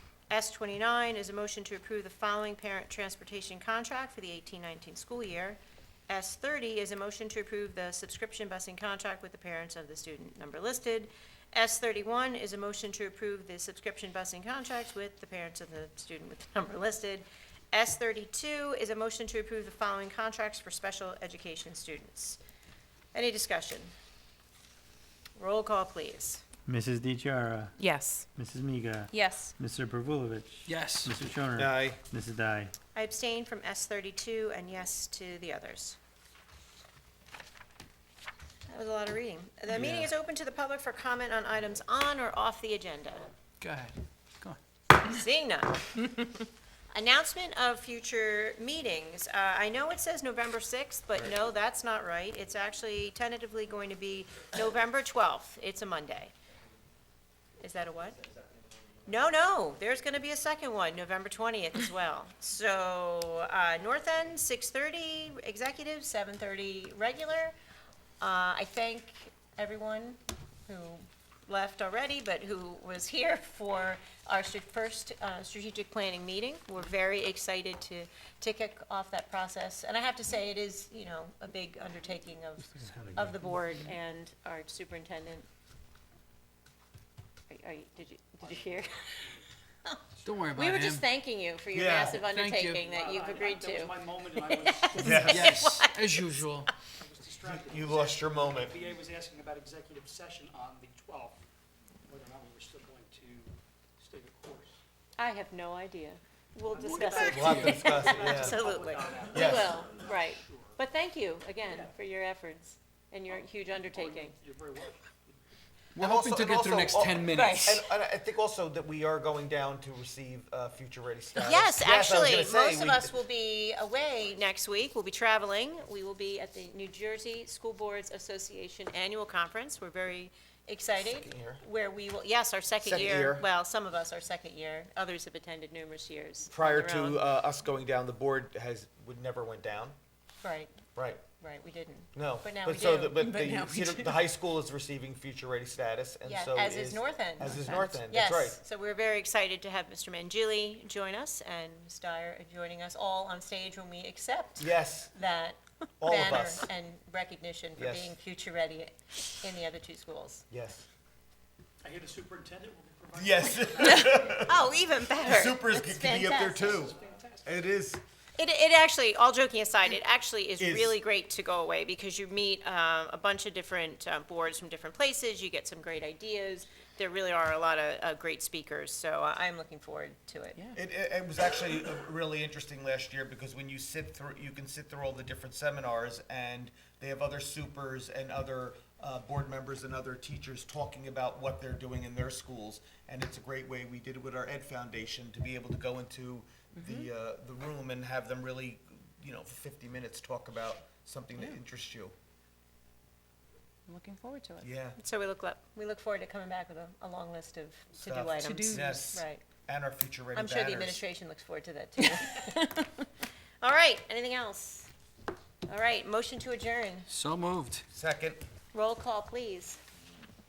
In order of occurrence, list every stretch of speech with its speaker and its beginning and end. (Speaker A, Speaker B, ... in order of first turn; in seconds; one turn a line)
Speaker A: 0.3-22.4
Speaker A: 23.1-23.9
Speaker A: 25.4-26.4
Speaker B: 26.6-27.7
Speaker C: 27.8-28.2
Speaker B: 28.3-32.7
Speaker C: 29.1-29.5
Speaker D: 30.6-31.1
Speaker E: 31.5-32.0
Speaker A: 32.9-36.0
Speaker A: 38.7-43.3
Speaker B: 39.7-40.1
Speaker D: 43.6-44.6
Speaker A: 45.0-46.3
Speaker A: 46.9-56.3
Speaker A: 57.6-58.2
Speaker A: 59.0-67.5
Speaker A: 68.2-85.5
Speaker A: 87.5-90.0
Speaker D: 90.2-91.0
Speaker A: 90.5-96.7
Speaker E: 91.7-92.2
Speaker D: 92.2-92.8
Speaker F: 92.7-95.5
Speaker E: 95.0-95.6
Speaker D: 95.2-96.7
Speaker F: 96.8-101.4
Speaker E: 97.4-98.8
Speaker F: 102.0-104.8
Speaker A: 105.2-114.4
Speaker F: 106.7-110.8
Speaker E: 107.0-108.7
Speaker E: 109.3-109.8
Speaker F: 113.3-115.3
Speaker D: 115.9-117.8
Speaker E: 116.0-123.1
Speaker A: 117.3-117.7
Speaker A: 121.3-137.2
Speaker E: 131.0-131.6
Speaker E: 132.8-133.4
Speaker E: 136.5-139.9
Speaker A: 140.4-140.8
Speaker E: 140.9-141.2
Speaker A: 141.4-143.7
Speaker E: 142.1-148.6
Speaker D: 143.4-143.8
Speaker A: 146.2-160.4
Speaker E: 154.6-155.1
Speaker E: 156.0-156.7
Speaker E: 157.8-158.1
Speaker E: 160.5-160.8
Speaker F: 161.8-164.2
Speaker E: 163.1-168.0
Speaker A: 164.1-166.9
Speaker F: 166.7-167.5
Speaker A: 168.3-180.7
Speaker E: 170.6-170.9
Speaker E: 180.7-202.1
Speaker C: 203.9-204.7
Speaker E: 204.6-205.0
Speaker A: 205.0-209.4
Speaker E: 208.0-211.0
Speaker C: 208.5-209.0
Speaker A: 210.3-213.1
Speaker A: 213.6-214.9
Speaker A: 215.7-217.1
Speaker D: 217.1-217.8
Speaker E: 217.9-218.4
Speaker A: 218.7-219.8